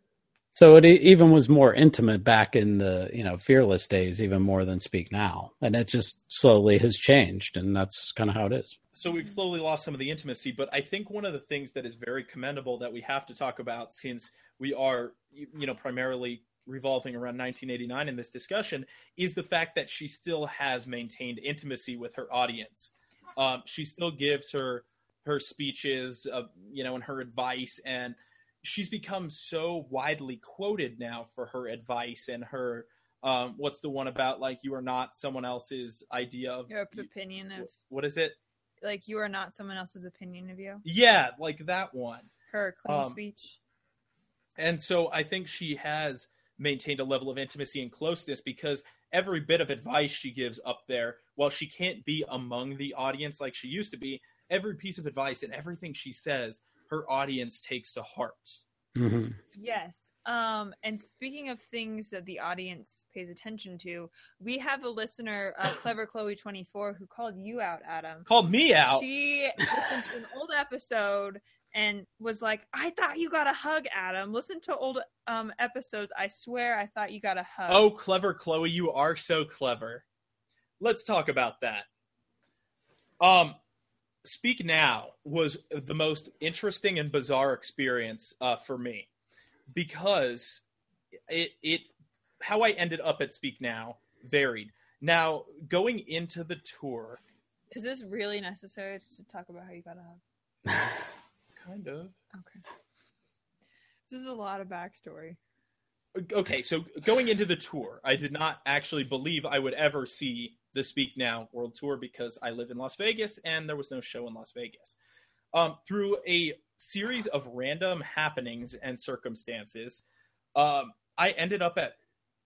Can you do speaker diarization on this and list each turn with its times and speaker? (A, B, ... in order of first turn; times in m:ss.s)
0:00.5-0:08.8 A
0:08.9-0:37.1 B
0:36.7-0:37.7 C
0:37.6-0:38.4 B
0:38.8-0:40.8 C
0:40.8-0:42.3 B
0:42.5-0:43.6 C
0:42.8-0:43.2 B
0:44.6-0:58.6 B
0:59.0-0:59.4 A
0:59.5-1:08.3 C
1:08.3-1:09.0 B
1:08.8-1:17.9 C
1:17.7-1:20.0 B
1:20.8-1:21.8 B
1:23.2-1:23.6 B
1:24.2-1:29.1 B
1:29.7-1:30.6 B
1:31.3-1:31.9 B
1:32.4-1:37.2 B
1:37.7-1:40.2 C
1:41.6-1:42.2 B
1:42.3-1:42.6 C
1:44.1-1:45.4 C
1:46.1-1:54.9 B
1:55.5-2:00.0 B
2:00.6-2:01.9 B